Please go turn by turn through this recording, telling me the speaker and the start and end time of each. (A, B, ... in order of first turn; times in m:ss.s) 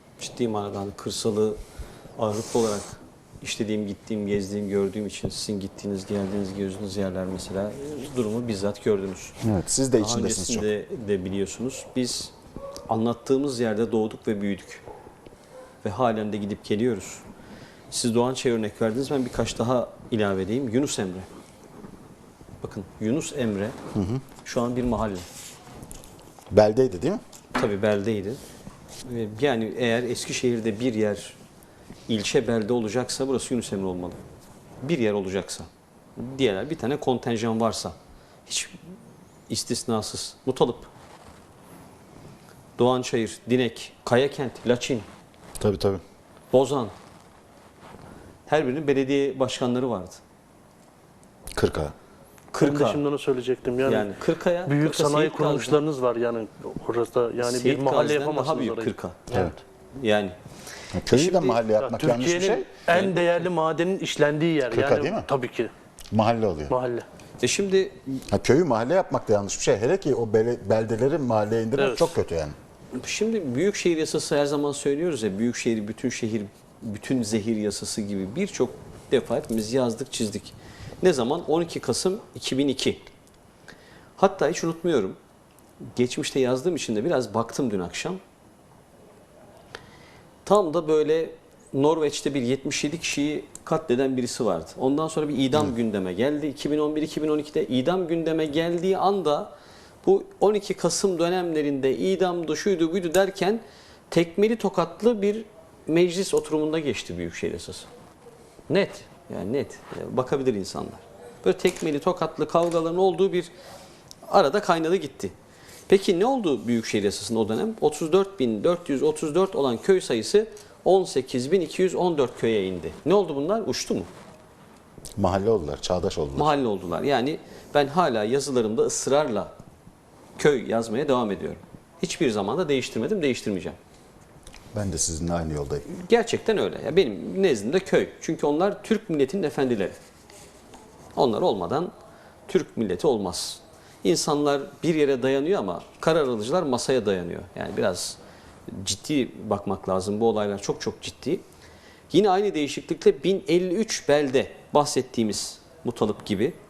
0:00.2-0:01.6 A
0:02.2-0:09.4 A
0:09.4-0:10.7 B
0:10.0-0:12.3 A
0:12.9-0:14.8 A
0:15.8-0:17.2 A
0:17.9-0:21.3 A
0:22.6-0:23.8 A
0:23.9-0:24.2 B
0:24.4-0:25.3 A
0:26.5-0:27.2 B
0:27.5-0:28.4 A
0:29.0-0:31.4 A
0:32.1-0:34.2 A
0:34.8-0:38.0 A
0:38.5-0:38.8 A
0:39.5-0:40.9 A
0:42.8-0:45.1 A
0:45.6-0:46.0 B
0:46.5-0:46.9 A
0:48.5-0:50.2 A
0:51.6-0:51.9 B
0:52.5-0:53.0 A
0:52.6-0:54.1 C
0:53.8-0:55.8 A
0:54.7-0:59.5 C
0:57.4-0:59.4 A
1:00.0-1:00.4 A
1:00.9-1:02.7 B
1:01.1-1:01.6 A
1:01.6-1:05.7 C
1:02.9-1:03.4 A
1:04.7-1:05.3 B
1:06.1-1:06.7 B
1:06.7-1:07.1 C
1:07.4-1:08.0 A
1:08.3-1:12.6 B
1:11.8-1:12.2 C
1:12.9-1:23.0 A
1:24.2-1:25.2 A
1:26.0-1:28.2 A
1:30.5-1:39.5 A
1:40.0-1:47.9 A
1:48.7-1:53.5 A
1:54.3-1:55.3 A
1:55.9-2:04.1 A
2:05.2-2:06.5 B
2:06.4-2:09.5 A
2:10.4-2:13.8 A
2:14.7-2:15.8 B
2:15.9-2:20.0 A
2:21.2-2:21.9 A
2:22.5-2:31.4 A
2:32.1-2:36.6 A